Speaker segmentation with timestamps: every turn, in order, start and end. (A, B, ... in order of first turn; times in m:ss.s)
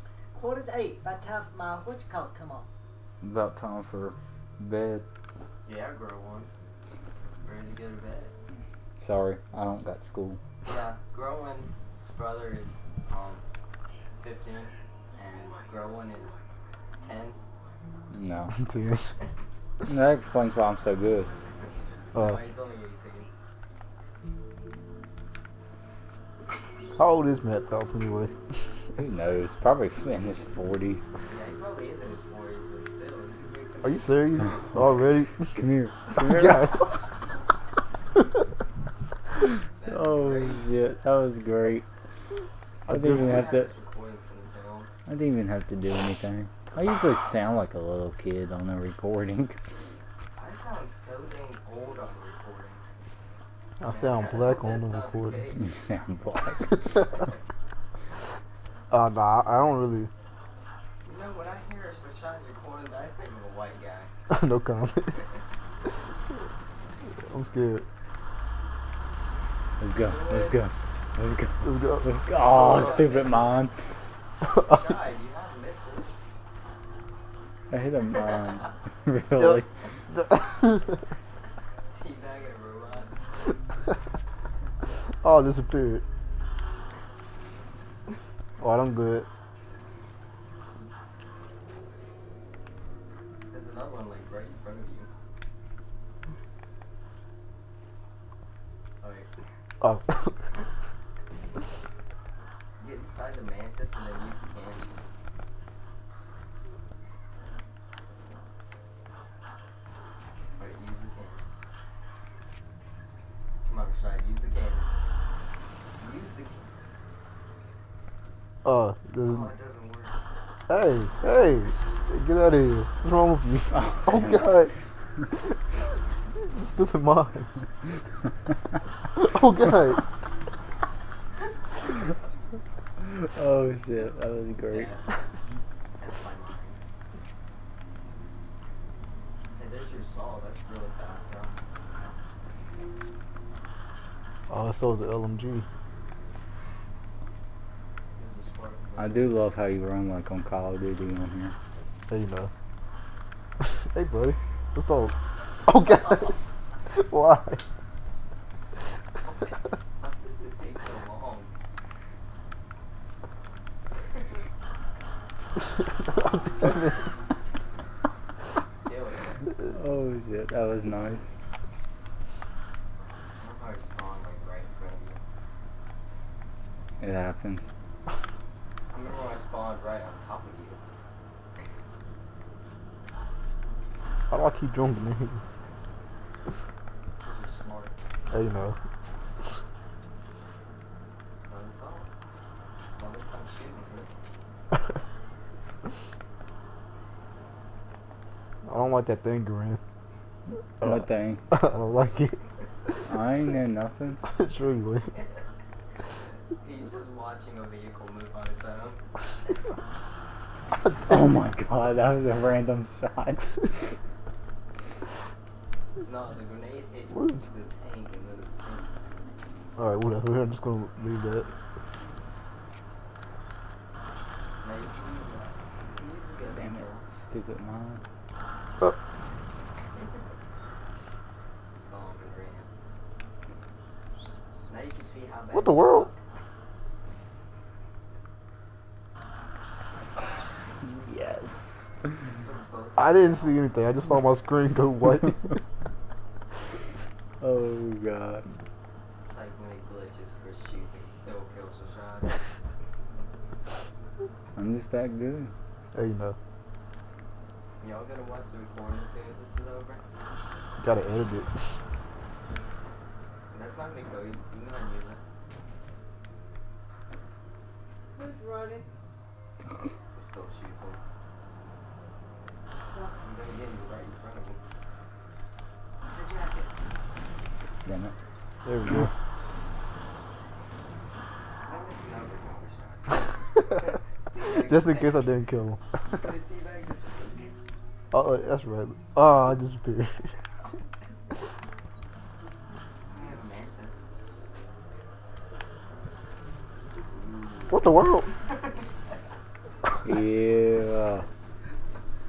0:00.3-0:02.7 A
0:03.2-0:05.0 B
0:05.6-0:06.5 C
0:07.4-0:08.3 C
0:09.0-0:10.4 B
0:10.6-0:13.4 C
0:14.2-0:16.4 C
0:17.0-0:17.4 C
0:18.1-0:18.5 B
0:18.6-0:19.1 D
0:19.8-0:21.3 B
0:22.2-0:23.3 C
0:27.0-0:28.3 D
0:29.0-0:31.1 B
0:31.3-0:34.4 C
0:33.8-0:35.6 D
0:35.5-0:36.8 B
0:36.2-0:36.9 D
0:39.8-0:40.7 C
0:39.9-0:41.8 B
0:42.9-0:43.7 B
0:42.9-0:43.4 D
0:43.0-0:44.9 C
0:45.1-0:49.6 B
0:50.4-0:52.9 C
0:53.8-0:55.4 D
0:53.9-0:55.6 C
0:55.6-0:56.9 B
0:58.9-1:00.1 D
1:01.0-1:04.1 C
1:04.3-1:05.2 D
1:07.3-1:07.8 D
1:09.8-1:13.7 B
1:10.0-1:10.6 C
1:11.6-1:13.0 D
1:12.4-1:13.7 C
1:14.5-1:14.8 D
1:14.6-1:16.1 C
1:17.7-1:19.7 B
1:20.1-1:21.0 D
1:21.9-1:23.1 C
1:25.2-1:26.0 D
1:28.6-1:29.3 D
1:33.5-1:35.1 C
1:39.0-1:39.3 C
1:39.8-1:40.3 D
1:42.8-1:45.0 C
1:50.6-1:51.4 C
1:53.6-1:54.9 C
1:56.0-1:56.8 C
1:58.6-1:59.5 D
1:59.2-2:00.2 C
2:00.7-2:04.7 D
2:03.7-2:04.5 B
2:06.4-2:07.6 D
2:09.2-2:10.0 D
2:13.0-2:14.9 B
2:14.7-2:15.0 C
2:16.0-2:16.8 C
2:19.6-2:21.5 C
2:24.5-2:25.6 D
2:28.2-2:29.3 C
2:29.0-2:31.5 B
2:32.1-2:32.5 D
2:33.6-2:35.1 D
2:35.6-2:36.3 D
2:36.9-2:37.6 D
2:39.2-2:41.5 C
2:46.6-2:46.9 D
2:48.5-2:49.5 C
2:49.7-2:51.3 B
2:53.4-2:55.2 C
2:57.0-2:57.7 B
2:58.9-3:00.8 C
3:04.3-3:05.4 D
3:07.2-3:07.9 C
3:08.3-3:08.8 D
3:11.5-3:12.1 C
3:12.9-3:14.1 C
3:18.6-3:19.8 D
3:20.8-3:21.4 B
3:20.8-3:22.4 D
3:23.1-3:24.2 B
3:24.3-3:25.1 D
3:26.5-3:29.0 C
3:31.0-3:33.6 B
3:36.0-3:39.0 C
3:37.1-3:37.4 D
3:39.8-3:41.5 D
3:44.6-3:47.0 C
3:46.6-3:48.0 B
3:49.9-3:50.2 C
3:51.7-3:52.7 C
3:54.7-3:56.2 C
3:55.5-3:56.1 D
4:00.8-4:01.9 B
4:02.4-4:03.7 C
4:03.0-4:05.4 D
4:07.4-4:08.4 B
4:09.2-4:12.4 C
4:14.6-4:15.5 B
4:15.9-4:16.4 D
4:17.8-4:20.0 C
4:20.8-4:21.8 D
4:23.5-4:25.2 C
4:28.1-4:28.9 A
4:30.2-4:31.0 C
4:32.9-4:33.2 A
4:33.2-4:34.6 C
4:36.0-4:36.7 C
4:37.8-4:38.1 B
4:38.6-4:39.1 D
4:41.6-4:45.2 C
4:44.4-4:45.8 D
4:46.1-4:47.5 C
4:48.1-4:50.3 D
4:53.1-4:54.1 C
4:57.2-4:57.8 C
4:57.7-4:58.3 D
4:58.4-4:58.9 C
5:00.0-5:01.2 B